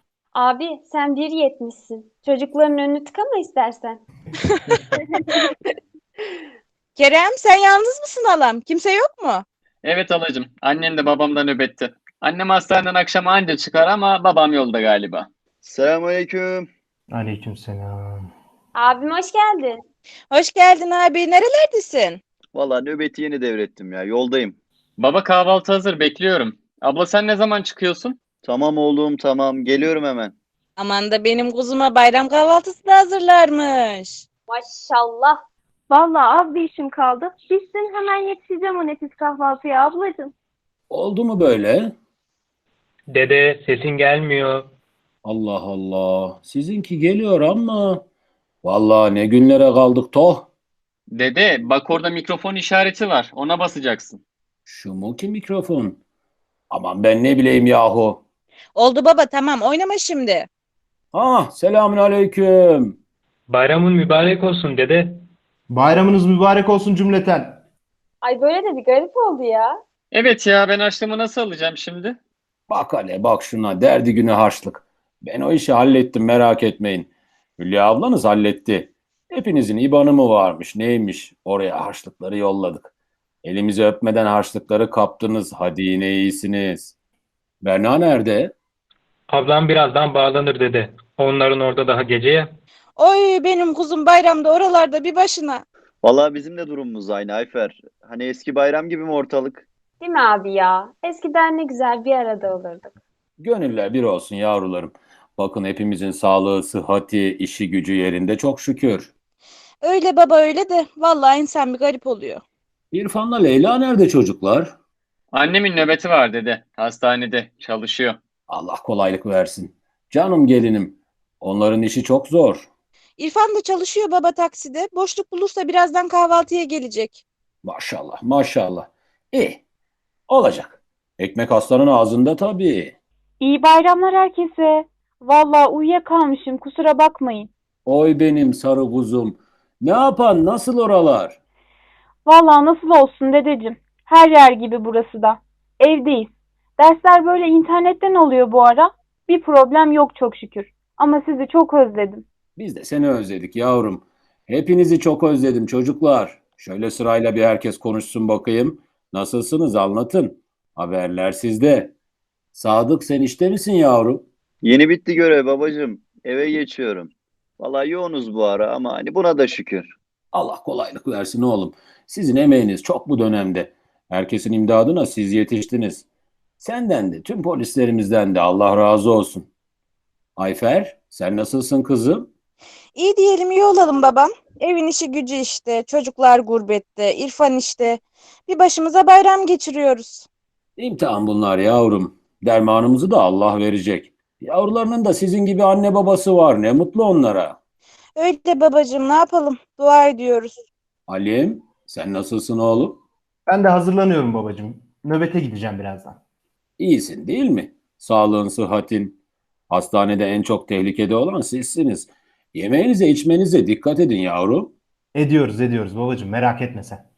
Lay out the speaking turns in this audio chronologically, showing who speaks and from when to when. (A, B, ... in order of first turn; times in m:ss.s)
0:00.3-0:04.0 A
0:07.0-0:09.4 B
0:09.8-0:15.3 C
0:15.6-0:16.7 D
0:17.1-0:18.3 E
0:18.8-0:19.8 A
0:20.3-0:22.2 B
0:22.5-0:24.6 D
0:25.0-0:28.2 C
0:28.4-0:30.3 D
0:30.8-0:34.2 B
0:34.5-0:35.4 A
0:35.9-0:40.3 F
0:40.9-0:41.9 G
0:43.2-0:44.6 H
0:45.2-0:48.0 G
0:48.6-0:50.5 G
0:51.1-0:54.2 C
0:54.7-0:56.0 G
0:56.7-0:58.2 G
0:58.8-1:00.5 B
1:01.1-1:03.0 G
1:03.5-1:05.1 H
1:05.7-1:07.6 E
1:08.2-1:09.8 A
1:10.1-1:12.2 C
1:12.7-1:22.9 G
1:23.4-1:26.9 G
1:27.6-1:28.5 G
1:29.3-1:32.5 H
1:33.0-1:35.6 B
1:36.0-1:39.6 D
1:40.0-1:42.9 A
1:43.4-1:49.1 G
1:49.8-1:52.4 B
1:52.9-1:54.7 G
1:55.3-1:58.2 C
1:58.5-2:02.7 G
2:03.2-2:07.2 B
2:07.6-2:09.6 G
2:10.3-2:13.0 G
2:13.4-2:17.5 F
2:17.8-2:21.4 G
2:22.2-2:32.2 F
2:32.6-2:41.9 G
2:42.5-2:44.2 G
2:44.6-2:49.9 D
2:50.3-2:56.0 G
2:56.6-2:59.5 G
3:00.4-3:02.3 G
3:03.0-3:10.2 B
3:10.8-3:17.6 G
3:18.2-3:20.6 B
3:21.1-3:23.0 G
3:23.5-3:26.2 E
3:26.8-3:29.2 G
3:29.7-3:34.7 G
3:35.1-3:37.0 E